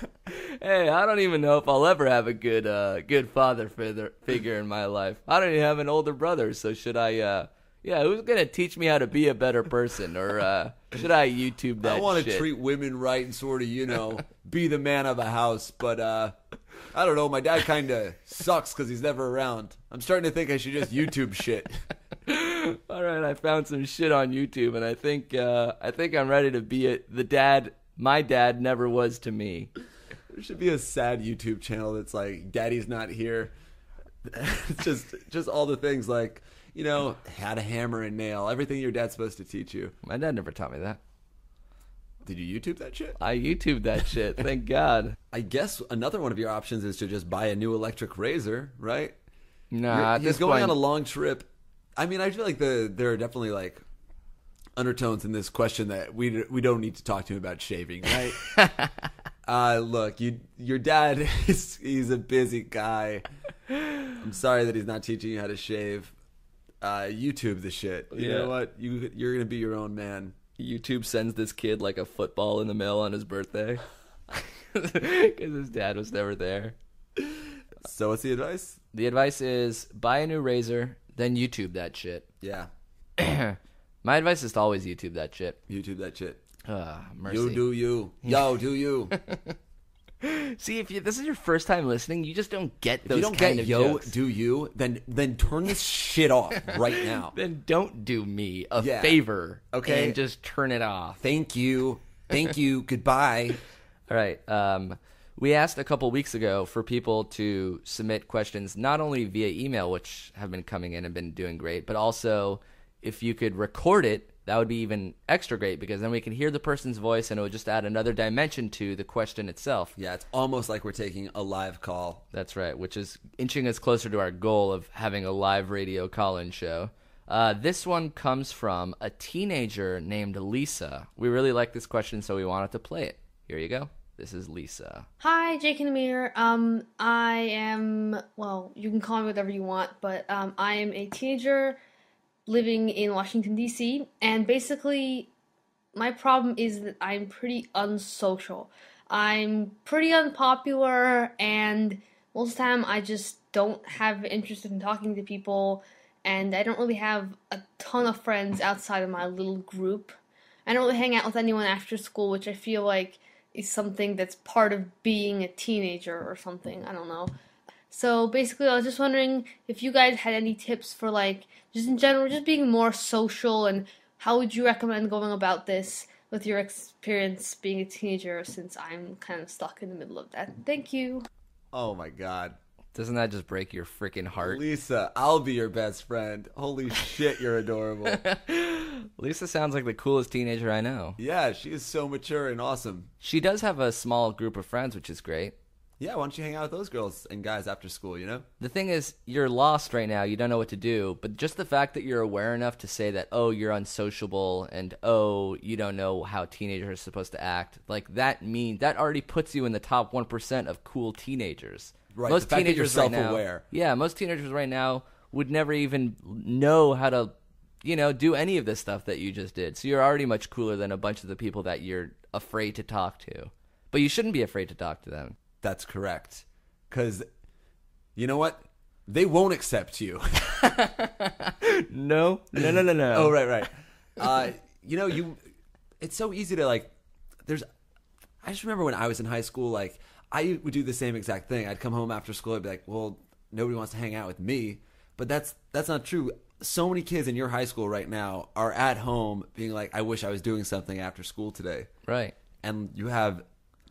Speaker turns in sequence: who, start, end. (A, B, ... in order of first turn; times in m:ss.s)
0:00.3-0:12.5 A
0:11.8-0:16.3 B
0:16.9-0:21.8 B
0:22.2-0:29.7 A
0:30.3-0:33.5 B
0:34.2-0:39.9 B
0:40.0-0:41.0 A
0:42.2-0:43.2 B
0:43.2-0:45.2 A
0:45.3-0:49.2 B
0:49.7-0:50.8 A
0:49.9-0:53.8 B
0:54.8-0:58.4 B
0:58.5-0:58.9 A
0:59.4-1:03.2 B
1:04.1-1:06.1 B
1:06.8-1:10.3 B
1:08.1-1:08.5 A
1:10.6-1:13.8 A
1:14.3-1:16.8 A
1:17.8-1:18.8 B
1:18.9-1:22.3 A
1:22.4-1:22.7 B
1:23.2-1:25.6 A
1:25.7-1:26.4 B
1:26.6-1:27.6 A
1:27.2-1:29.1 B
1:29.1-1:29.6 A
1:30.2-1:34.1 A
1:33.0-1:37.4 B
1:37.0-1:41.2 A
1:38.8-1:40.2 B
1:41.2-1:43.6 B
1:44.1-1:59.9 A
2:00.0-2:02.2 B
2:02.3-2:15.1 A
2:15.2-2:21.8 C
2:22.5-2:25.3 C
2:25.9-2:47.3 C
2:47.9-3:01.3 C
3:01.7-3:02.6 B
3:02.9-3:04.6 A
3:04.4-3:08.2 B
3:08.0-3:11.2 A
3:11.2-3:13.1 B
3:13.2-3:15.6 A
3:16.0-3:18.4 B
3:18.6-3:45.4 A
3:32.1-3:33.6 B
3:45.6-3:47.3 B
3:48.2-3:50.7 B
3:50.6-3:53.4 A
3:52.6-3:55.4 B
3:56.0-3:56.9 B
3:58.4-4:11.9 B
4:12.0-4:12.3 A
4:12.6-4:13.4 B